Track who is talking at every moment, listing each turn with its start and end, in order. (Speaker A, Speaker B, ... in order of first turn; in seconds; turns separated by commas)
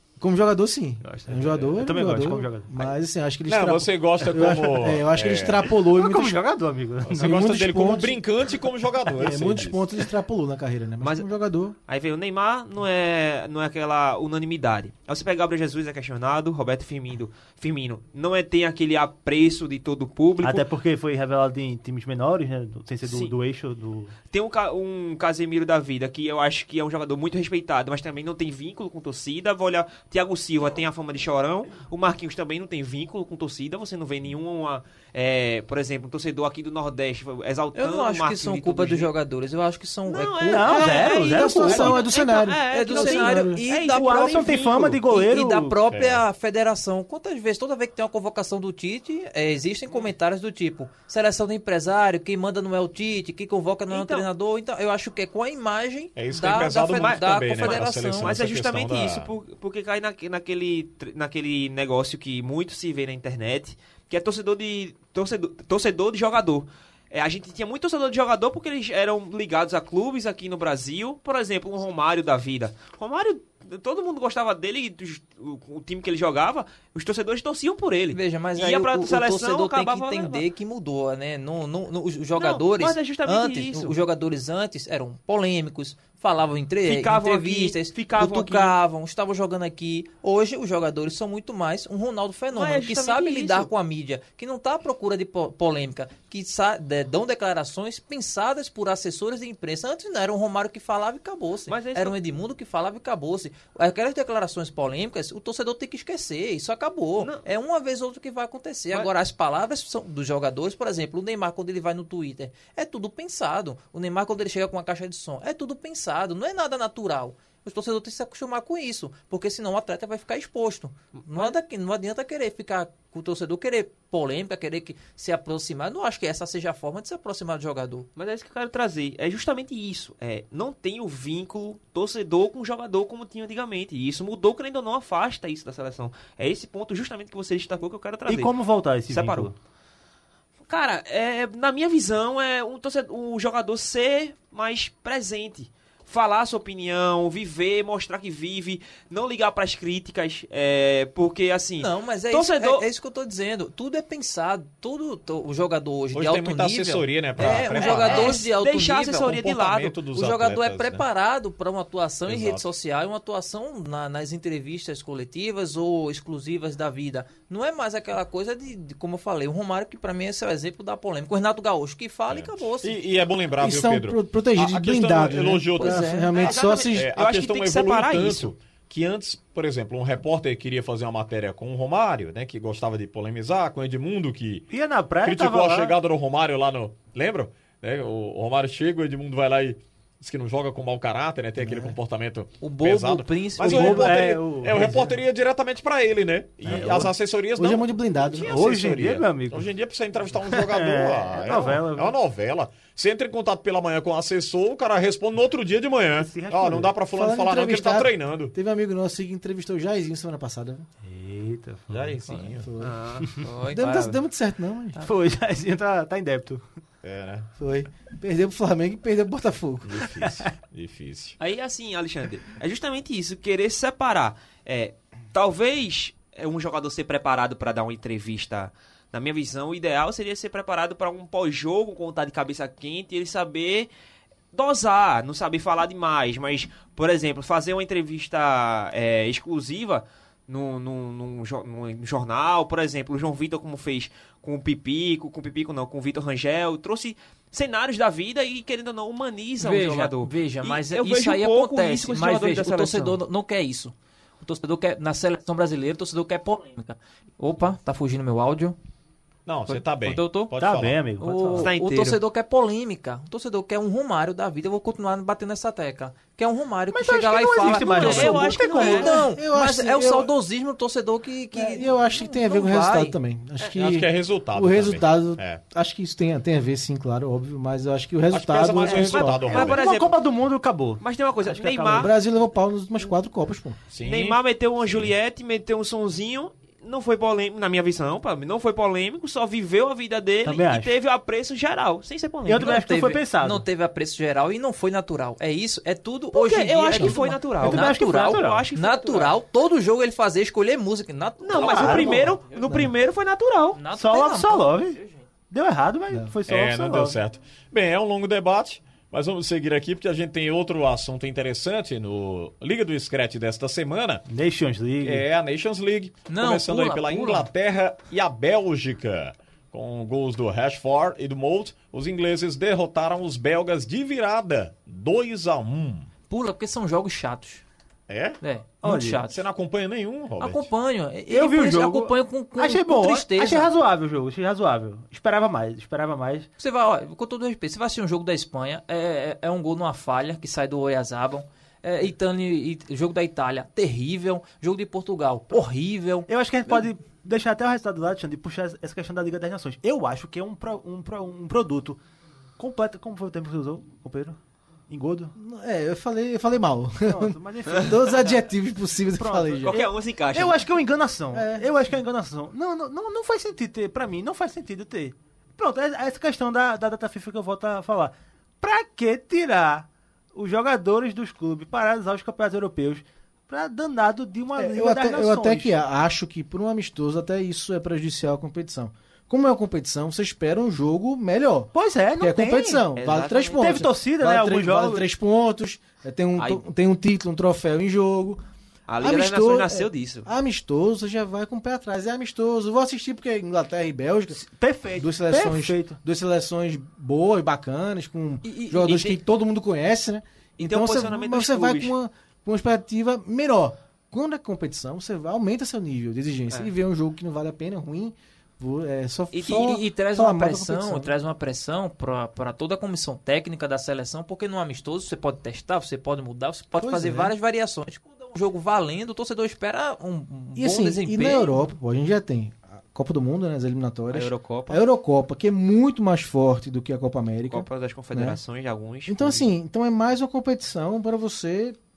Speaker A: 0.2-6.4, Speaker B: 1.0-1.7, Speaker C: 1.4-2.7, Speaker D: 3.5-5.7, Speaker C: 5.9-7.3, Speaker D: 7.0-9.8, Speaker A: 7.1-8.2, Speaker A: 9.2-11.8, Speaker B: 11.0-11.3, Speaker B: 11.9-20.7, Speaker C: 20.4-24.1, Speaker B: 23.0-23.3, Speaker B: 24.3-39.1, Speaker E: 37.7-41.9, Speaker B: 40.1-45.0, Speaker C: 40.4-42.0, Speaker A: 41.1-43.6, Speaker E: 42.7-58.3, Speaker C: 43.9-45.8, Speaker D: 45.9-46.2, Speaker B: 53.9-54.3, Speaker D: 56.1-59.3, Speaker B: 56.5-80.4, Speaker E: 78.1-128.1, Speaker B: 82.4-84.0, Speaker B: 86.8-88.8, Speaker B: 92.5-93.7, Speaker B: 101.7-102.2, Speaker B: 107.2-107.5, Speaker B: 121.2-121.5, Speaker B: 128.2-138.5, Speaker C: 138.3-139.5, Speaker B: 139.1-139.5, Speaker B: 140.7-152.9, Speaker E: 151.8-159.4, Speaker D: 156.1-158.4, Speaker B: 157.4-160.0, Speaker D: 159.2-161.0, Speaker E: 160.1-172.9, Speaker D: 162.3-162.7, Speaker D: 172.3-176.2, Speaker A: 173.6-177.1, Speaker E: 175.8-176.3, Speaker B: 176.3-178.5, Speaker D: 176.8-208.5, Speaker C: 184.7-186.0, Speaker A: 191.6-192.0, Speaker E: 192.6-194.2, Speaker C: 193.6-195.2, Speaker C: 196.6-197.1, Speaker A: 197.6-198.5, Speaker C: 198.4-199.7, Speaker C: 200.4-202.2, Speaker C: 206.2-207.0, Speaker A: 207.1-210.8, Speaker C: 211.0-212.2, Speaker D: 211.9-212.7, Speaker A: 212.6-213.0, Speaker B: 212.8-213.4, Speaker E: 213.4-214.2, Speaker A: 213.7-215.0, Speaker C: 215.0-216.6, Speaker D: 217.0-217.5, Speaker A: 217.6-220.1, Speaker D: 219.8-221.4, Speaker C: 220.2-220.5, Speaker B: 221.4-233.9, Speaker B: 234.5-253.2, Speaker E: 249.6-258.8, Speaker D: 259.4-261.0, Speaker E: 259.7-260.5, Speaker C: 260.6-261.7, Speaker E: 261.2-273.1, Speaker B: 261.6-262.2, Speaker C: 266.9-269.1, Speaker B: 267.7-269.1, Speaker A: 268.8-270.3, Speaker A: 271.5-279.5, Speaker D: 273.7-275.6, Speaker D: 278.3-279.9, Speaker B: 278.8-280.2, Speaker C: 279.5-282.1, Speaker B: 281.0-282.1, Speaker A: 281.9-283.8, Speaker D: 283.9-285.1, Speaker B: 284.0-292.8, Speaker C: 290.4-290.9, Speaker C: 292.4-293.6, Speaker E: 292.5-302.3, Speaker B: 296.3-299.3, Speaker C: 297.6-298.6, Speaker B: 301.4-303.8, Speaker C: 301.6-302.3, Speaker A: 301.9-302.9, Speaker E: 303.8-305.2, Speaker C: 303.9-307.2, Speaker D: 306.4-314.2, Speaker C: 314.3-315.3, Speaker D: 315.0-326.1, Speaker E: 316.3-317.5, Speaker E: 326.3-327.6, Speaker D: 328.1-328.4, Speaker E: 328.4-329.4, Speaker C: 328.8-329.2, Speaker D: 329.2-330.7, Speaker E: 330.4-333.7, Speaker C: 331.3-336.5, Speaker E: 336.6-346.3, Speaker C: 346.3-352.0, Speaker C: 352.6-354.4, Speaker C: 354.9-355.3, Speaker A: 355.4-359.8, Speaker C: 357.1-358.2, Speaker C: 359.2-375.7, Speaker B: 359.6-360.6, Speaker A: 361.3-361.7, Speaker A: 374.6-388.4, Speaker C: 381.7-382.8, Speaker B: 383.0-383.9, Speaker C: 383.6-385.1, Speaker B: 386.4-386.6, Speaker B: 388.9-390.3, Speaker A: 389.0-394.4, Speaker C: 394.4-396.0, Speaker A: 395.0-411.1, Speaker B: 398.4-399.2, Speaker B: 400.6-401.9, Speaker B: 409.3-409.7, Speaker E: 409.4-421.6, Speaker A: 416.8-417.3, Speaker A: 420.6-428.4, Speaker B: 424.1-424.8, Speaker B: 427.5-429.5, Speaker A: 429.1-431.8